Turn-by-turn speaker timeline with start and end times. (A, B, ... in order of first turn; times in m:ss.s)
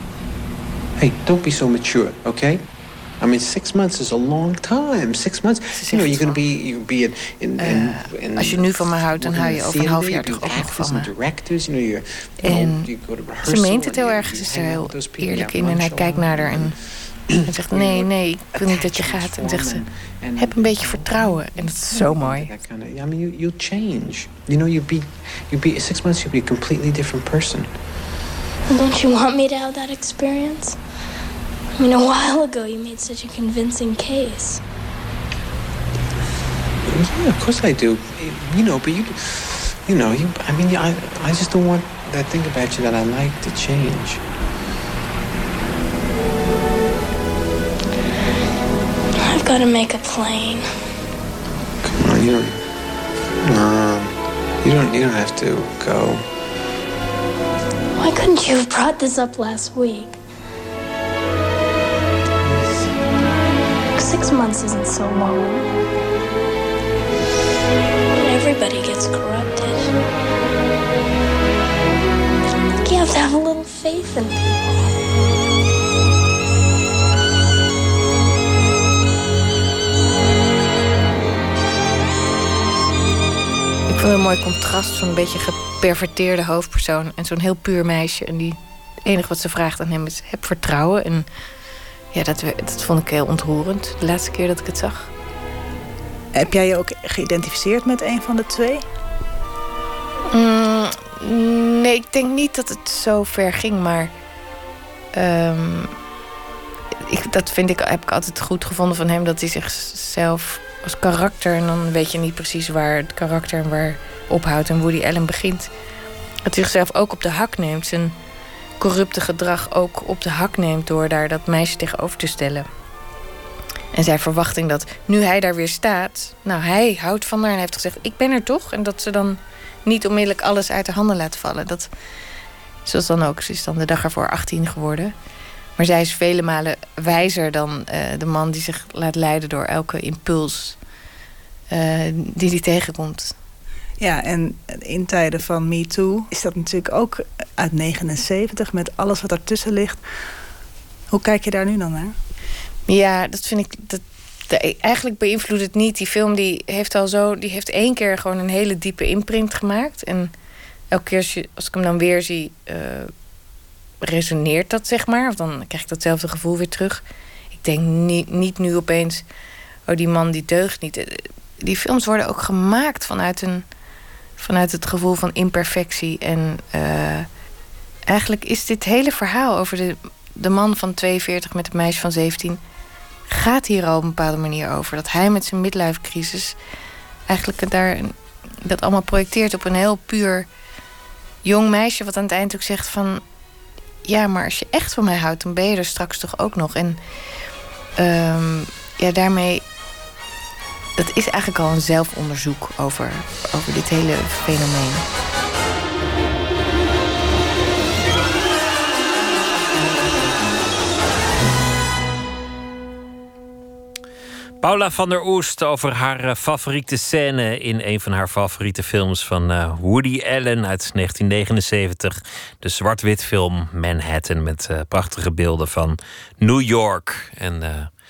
0:01.0-0:27.9 A
0:05.7-0:06.4 B
0:07.6-0:11.1 B
0:12.4-0:12.9 B
0:13.4-0:16.8 B
0:17.4-0:19.8 B
0:20.4-0:22.5 B
0:28.7-0:30.8 C
0:31.8-0:34.6 C
0:36.8-0:44.2 A
0:49.2-0:50.6 C
0:51.8-0:52.9 A
0:53.4-0:56.2 A
0:58.0-1:00.2 C
1:03.9-1:05.7 C
1:08.2-1:10.0 C
1:12.8-1:14.6 C
1:23.9-1:31.2 B
1:32.1-1:35.1 B
1:36.3-1:38.8 D
1:40.3-1:44.1 B
1:45.1-1:45.9 B
1:47.1-1:55.7 B
1:56.4-1:58.1 B
1:58.8-2:02.6 B
2:03.9-2:11.9 B
2:12.8-2:15.1 B
2:15.8-2:20.8 B
2:21.7-2:23.3 B
2:24.0-2:30.0 D
2:31.1-2:32.1 D
2:32.9-2:40.3 B
2:40.9-2:43.1 B
2:44.0-2:47.0 B
2:47.6-2:49.2 B
2:49.9-2:53.6 B
2:54.4-2:57.3 B
2:58.1-3:02.6 B
3:03.3-3:06.6 B
3:07.3-3:10.5 B
3:11.4-3:13.2 B
3:14.0-3:17.0 B
3:18.0-3:19.6 B
3:21.0-3:25.0 B
3:34.6-3:47.9 E